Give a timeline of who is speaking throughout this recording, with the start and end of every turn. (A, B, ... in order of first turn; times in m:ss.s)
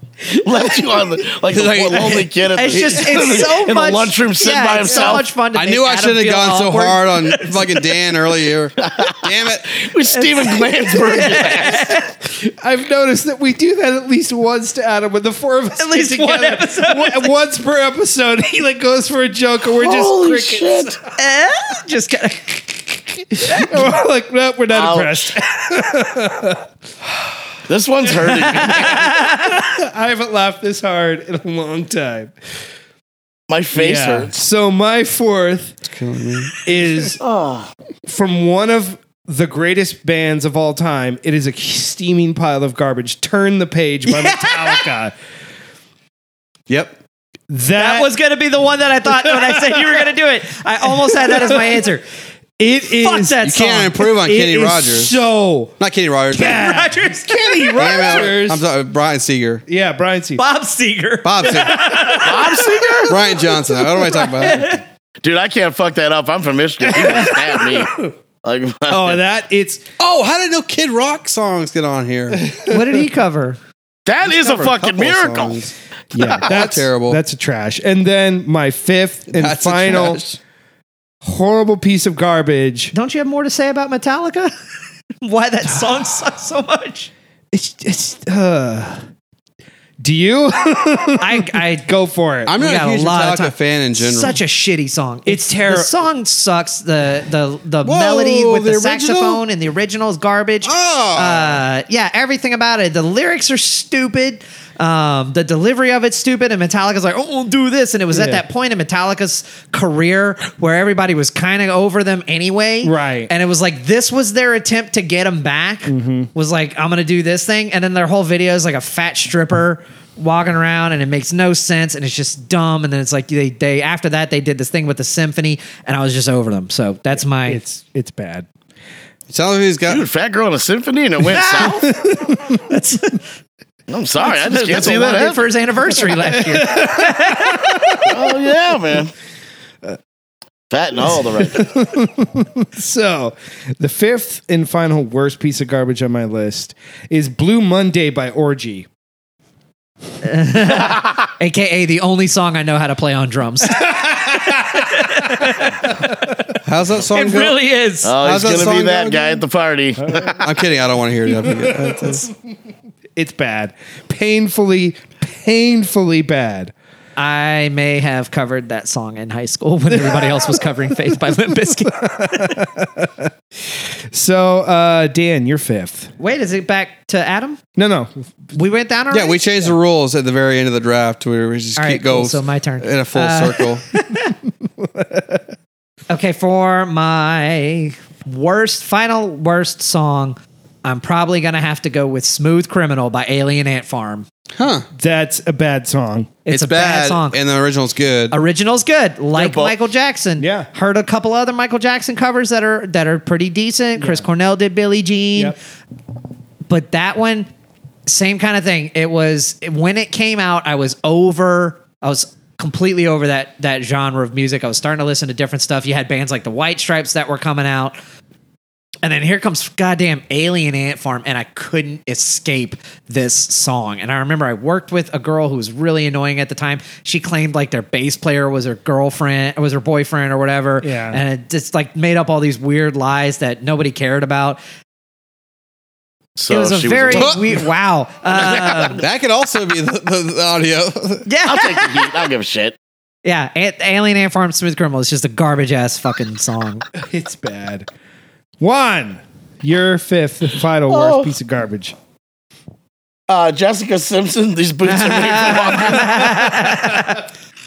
0:00.2-0:05.3 A
0:01.5-0:02.3 B
0:02.5-0:07.9 C
0:05.5-0:09.8 B
0:08.8-0:12.0 A
0:10.1-0:12.1 C
0:12.3-0:21.0 D
0:15.8-0:17.3 C
0:19.7-0:21.0 A
0:21.2-0:23.9 C
0:23.3-0:26.6 D
0:24.7-0:25.3 A
0:27.7-0:29.2 A
0:28.3-0:32.3 D
0:28.5-0:29.6 C
0:33.5-0:34.4 A
0:33.8-0:35.8 D
0:35.8-0:36.5 B
0:36.6-0:37.2 D
0:37.2-0:37.7 A
0:38.1-0:45.1 D
0:44.1-0:44.9 C
0:46.7-0:47.0 B
0:47.5-0:48.1 D
0:47.8-0:52.0 C
0:49.2-0:50.0 D
0:51.0-0:51.7 D
0:52.6-0:55.8 D
0:53.0-0:54.1 C
0:53.4-0:55.2 B
0:55.8-0:56.7 B
0:56.3-0:58.6 D
0:56.3-0:57.8 C
0:57.8-0:59.6 B
0:59.7-1:00.4 D
1:00.4-1:03.0 C
1:01.2-1:02.0 B
1:02.1-1:03.2 A
1:03.1-1:04.8 B
1:03.9-1:04.8 C
1:05.2-1:09.2 A
1:06.9-1:08.1 D
1:08.9-1:09.8 D
1:10.0-1:12.4 B
1:12.4-1:12.8 D
1:12.7-1:13.6 C
1:14.1-1:16.4 A
1:14.2-1:15.7 B
1:16.1-1:20.2 D
1:16.2-1:17.2 B
1:19.3-1:20.4 B
1:21.2-1:22.9 D
1:22.9-1:24.5 C
1:25.2-1:27.1 C
1:27.5-1:29.0 D
1:30.0-1:32.5 D
1:31.2-1:31.9 C
1:32.5-1:34.4 B
1:32.6-2:07.6 C
1:35.3-1:35.9 D
1:37.8-1:39.4 B
1:40.6-1:41.6 B
1:48.1-1:48.4 D
1:52.8-1:53.3 D
1:55.9-1:56.3 D
2:07.5-2:08.5 D
2:09.3-2:10.0 B
2:09.9-2:11.9 A
2:11.3-2:13.2 C
2:11.7-2:12.6 D
2:13.9-2:15.4 A
2:14.2-2:17.8 C
2:16.2-2:18.3 D
2:18.1-2:19.1 A
2:20.7-2:21.7 A
2:21.3-2:28.9 D
2:30.2-2:36.4 C
2:30.7-2:31.2 A
2:33.8-2:36.1 D
2:36.6-2:37.6 B
2:37.1-2:38.2 C
2:38.0-2:40.4 A
2:38.2-2:39.4 B
2:40.0-2:40.4 D
2:40.4-2:42.2 B
2:41.3-2:42.2 D
2:43.2-2:46.7 D
2:47.2-2:52.6 C
2:50.0-2:50.6 D
2:51.6-2:56.1 D
2:56.2-2:57.6 C
2:57.8-2:58.1 D
2:58.6-2:59.4 C
2:59.1-3:03.8 B
3:01.8-3:04.3 C
3:04.8-3:05.4 D
3:06.1-3:14.3 C
3:14.6-3:14.9 B
3:14.9-3:16.3 D
3:16.4-3:17.4 C
3:16.5-3:18.4 B
3:18.3-3:25.6 C
3:19.4-3:19.8 A
3:20.4-3:20.7 D
3:24.0-3:24.2 D
3:26.7-3:27.5 C
3:28.1-3:38.0 C
3:39.0-3:54.6 C
3:50.8-3:51.2 D
3:56.4-3:57.7 A
3:56.5-3:59.0 C
3:57.1-3:57.4 B
3:58.3-3:59.0 A
3:59.0-4:01.3 B
4:01.3-4:02.3 C
4:01.4-4:02.8 A
4:03.2-4:06.8 C
4:07.0-4:07.9 D
4:08.6-4:12.0 D
4:10.9-4:11.3 A
4:13.3-4:16.6 A
4:14.8-4:17.2 C